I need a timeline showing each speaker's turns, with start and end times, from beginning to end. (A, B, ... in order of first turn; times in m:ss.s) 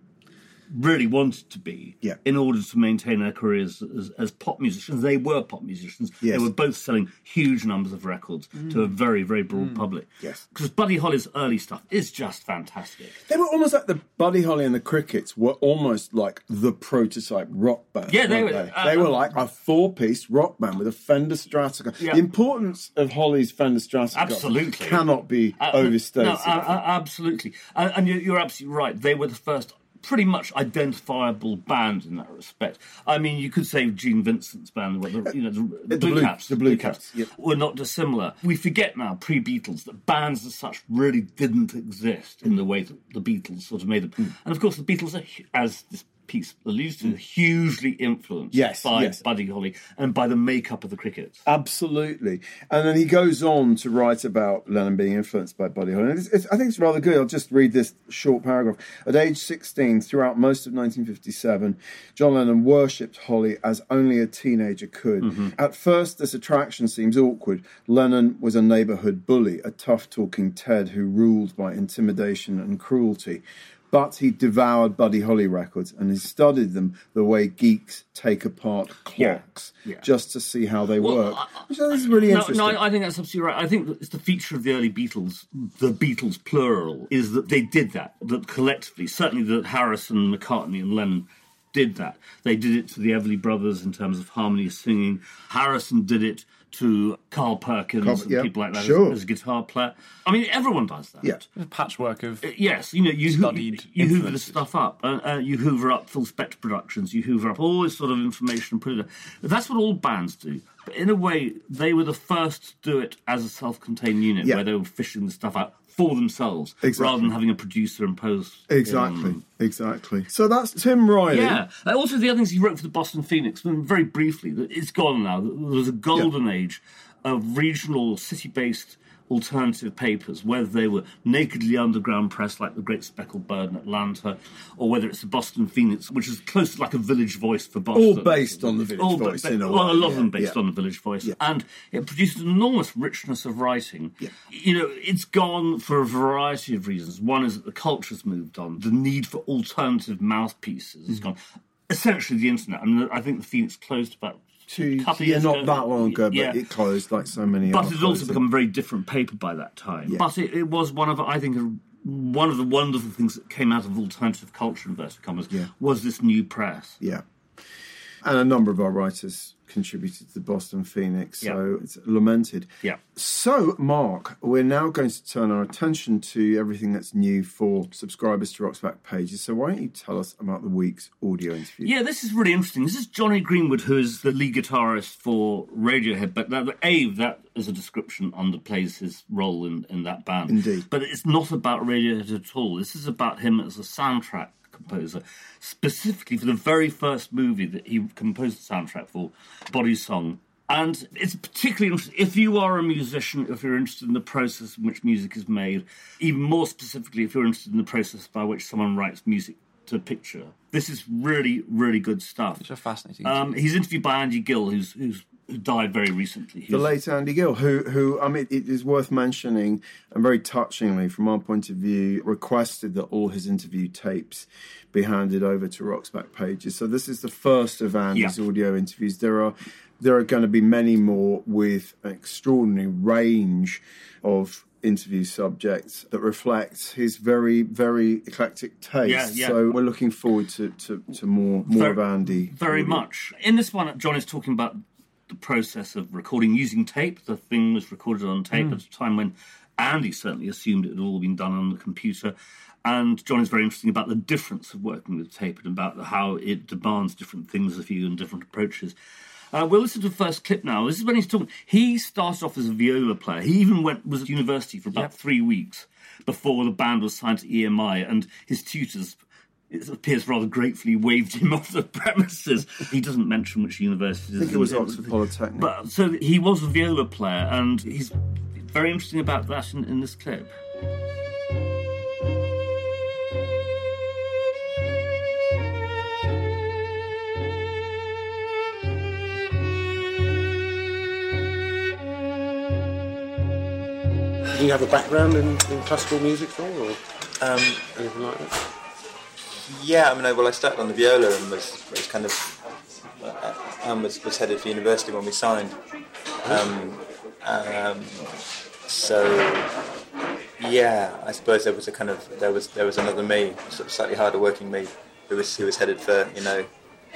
0:00.7-0:13.2 A
0:06.2-0:06.5 B
0:13.3-0:26.8 B
0:18.1-0:19.3 A
0:24.1-0:25.0 A
0:25.6-0:51.4 A
0:35.9-0:37.3 B
0:48.5-0:49.2 B
0:51.4-1:22.8 B
1:05.2-1:05.5 A
1:19.2-1:20.0 A
1:21.0-1:41.4 A
1:38.0-1:39.2 B
1:41.6-1:42.5 C
1:42.4-1:59.4 A
1:43.2-1:44.6 C
1:56.8-1:57.3 B
1:58.7-2:01.6 B
2:01.3-2:31.4 A
2:17.9-2:20.6 B
2:31.9-2:36.6 A
2:34.7-2:38.4 B
2:37.7-2:47.0 A
2:48.2-3:01.9 B
3:01.8-3:32.6 A
3:10.5-3:10.8 B
3:32.6-3:33.5 C
3:33.2-3:36.9 A
3:36.7-4:03.0 B
3:59.0-3:59.8 A
4:01.7-4:12.3 A
4:12.8-4:18.9 A
4:19.5-4:40.5 A
4:34.4-4:35.7 B
4:54.5-4:57.0 D
4:57.4-4:57.8 E
4:57.9-4:58.6 D
4:59.6-5:02.5 E
5:03.2-5:05.8 E
5:06.4-5:08.3 E
5:08.9-5:09.7 E
5:10.6-5:16.7 E